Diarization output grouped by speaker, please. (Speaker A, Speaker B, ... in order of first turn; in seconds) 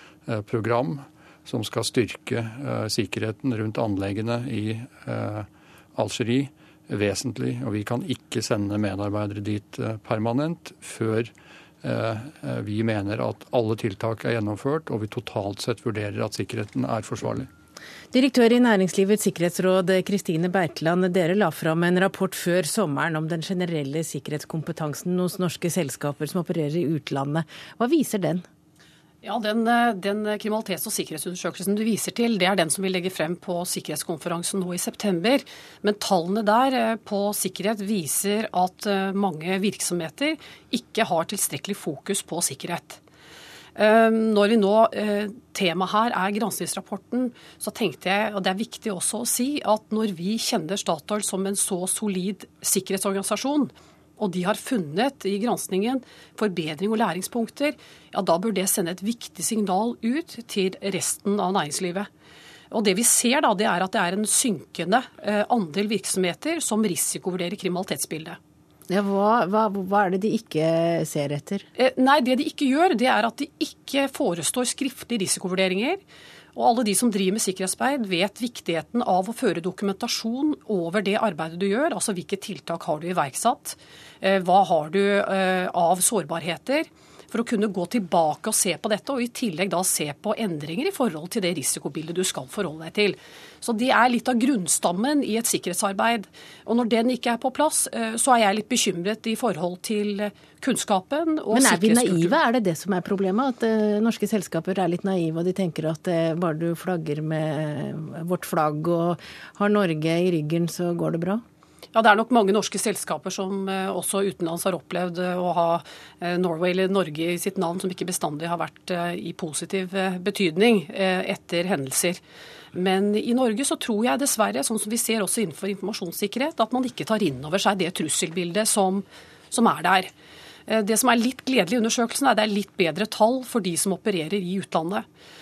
Speaker A: 0.3-17.5
Speaker B: 18.1-28.5, 68.9-71.7, 101.5-111.4
Speaker C: 29.2-43.0, 43.8-62.1, 62.7-68.4, 71.8-76.0, 76.5-102.3, 111.9-122.2, 122.7-130.1, 130.7-135.0